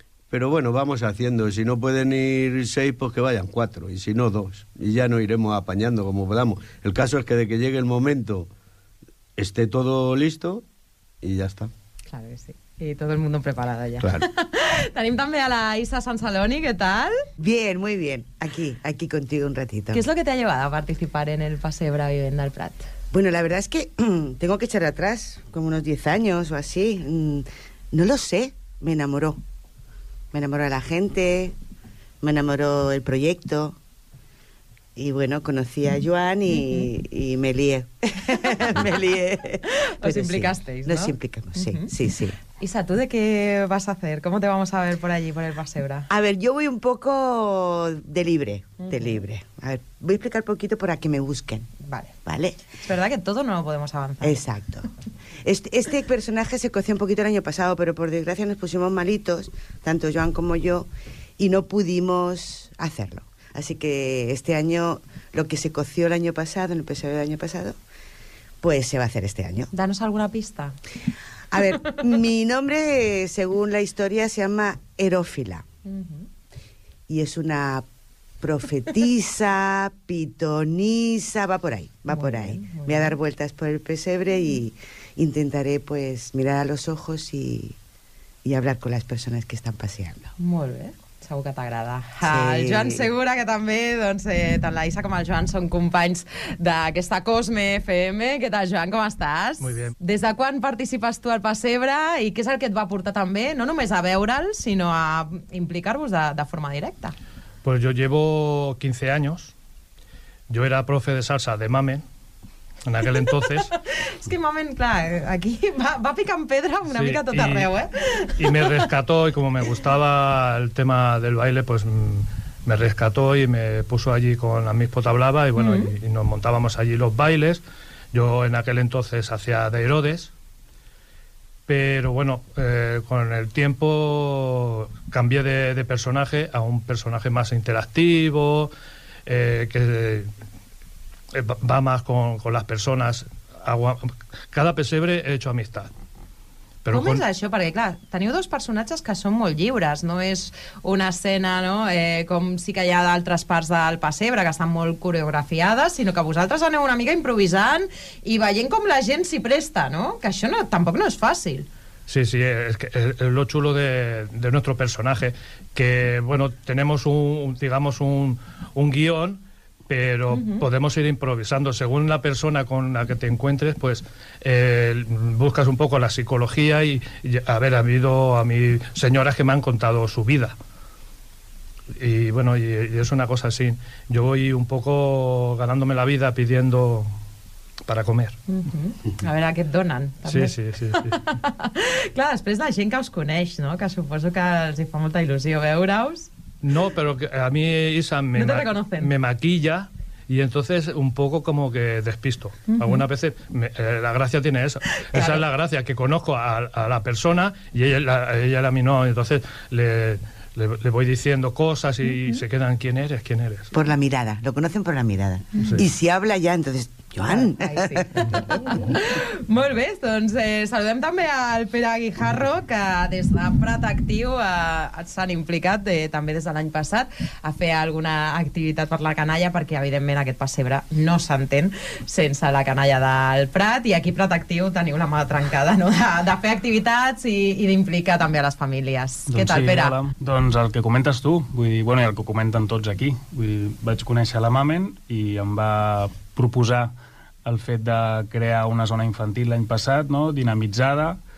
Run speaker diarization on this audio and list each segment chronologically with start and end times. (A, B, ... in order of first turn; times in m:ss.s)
0:00.3-0:08.5 A
0:09.4-0:10.6 A
0:11.2-0:11.7 A
0:12.1-0:17.1 B
0:14.0-0:14.2 A
0:17.4-0:20.1 C
0:19.9-0:22.9 B
0:23.1-0:29.4 C
0:30.3-0:31.6 C
0:32.2-0:33.8 C
0:35.0-0:42.4 C
0:36.5-0:36.9 B
0:40.0-0:41.9 B
0:42.6-0:46.1 B
0:46.1-0:51.7 C
0:48.8-0:49.2 B
0:51.8-0:52.1 B
0:52.2-0:52.6 C
0:52.8-0:54.4 B
0:54.2-0:54.9 C
0:55.4-1:07.8 C
1:08.6-1:09.7 C
1:09.7-1:10.7 B
1:11.5-1:15.6 C
1:15.8-1:16.2 B
1:17.1-1:17.8 C
1:18.4-1:27.8 C
1:22.1-1:23.1 B
1:28.4-1:30.3 C
1:30.4-1:47.1 B
1:32.2-1:33.1 C
1:39.6-1:39.9 D
1:47.6-1:49.5 D
1:50.5-1:52.0 D
1:52.8-1:53.7 D
1:53.8-1:58.6 B
1:56.9-1:57.7 D
1:58.4-2:10.3 D
2:05.6-2:05.9 B
2:11.7-2:18.7 D
2:19.2-2:20.3 D
2:21.3-2:25.9 D
2:26.8-2:27.2 D
2:26.9-2:41.7 B
2:42.1-3:00.6 D
2:50.3-2:50.6 B
3:02.0-3:07.2 D
3:07.8-3:08.4 D
3:08.5-3:16.3 B
3:10.2-3:11.1 D
3:16.6-3:33.7 D
3:18.3-3:19.1 B
3:22.7-3:22.9 B
3:25.1-3:25.4 B
3:33.7-3:38.5 C
3:37.2-4:00.0 B
3:59.3-4:06.9 E
4:07.4-4:11.2 E